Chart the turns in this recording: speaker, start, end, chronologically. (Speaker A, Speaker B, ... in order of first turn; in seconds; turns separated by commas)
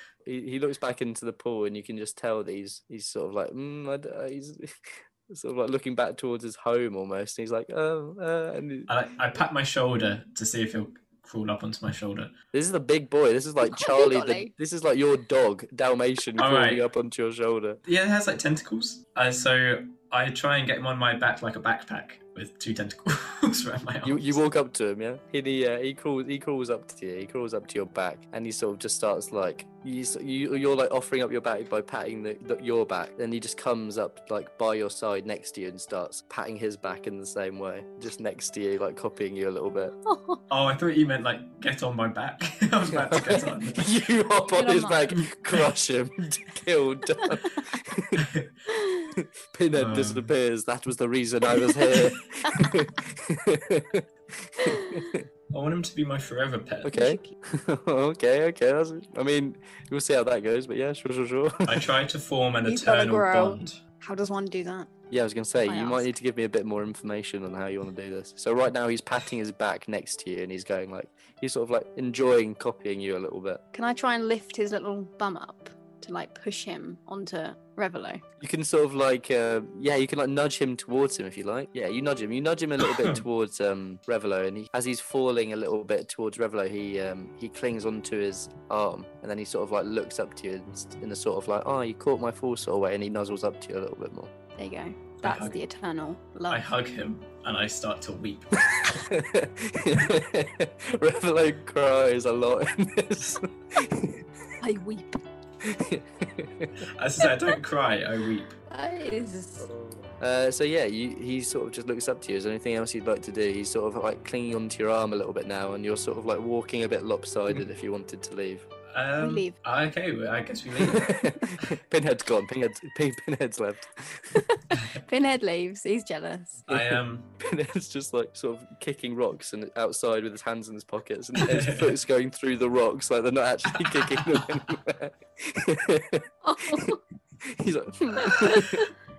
Speaker A: 0.2-8.9, Speaker B: 8.9-12.3, Speaker A: 12.5-17.8, Speaker C: 13.6-14.5, Speaker B: 16.4-16.8, Speaker B: 17.8-24.4, Speaker A: 24.0-39.9, Speaker C: 40.0-40.4, Speaker B: 40.5-43.9, Speaker A: 42.9-48.2, Speaker C: 44.3-45.1, Speaker B: 48.2-48.5, Speaker C: 48.7-49.1, Speaker A: 49.2-55.2, Speaker B: 49.7-50.3, Speaker C: 51.5-52.6, Speaker C: 54.6-55.1, Speaker B: 55.5-57.0, Speaker A: 56.8-61.9, Speaker C: 56.9-57.3, Speaker B: 61.6-63.8, Speaker C: 62.6-64.9, Speaker A: 65.1-73.6, Speaker C: 65.7-66.1, Speaker C: 73.7-78.2, Speaker A: 78.4-94.3, Speaker C: 94.6-96.6, Speaker B: 95.2-95.6, Speaker B: 96.5-98.5, Speaker A: 98.7-104.5, Speaker C: 104.6-105.2, Speaker A: 105.6-106.8, Speaker B: 106.8-108.5, Speaker C: 108.7-109.7, Speaker A: 109.6-118.7, Speaker B: 118.9-121.2, Speaker C: 119.2-119.5, Speaker A: 120.8-124.5, Speaker C: 124.3-126.6, Speaker B: 126.7-127.3, Speaker A: 126.7-138.9, Speaker B: 131.4-131.9, Speaker B: 134.2-134.5, Speaker C: 136.4-137.0, Speaker B: 138.2-138.6, Speaker C: 138.3-138.9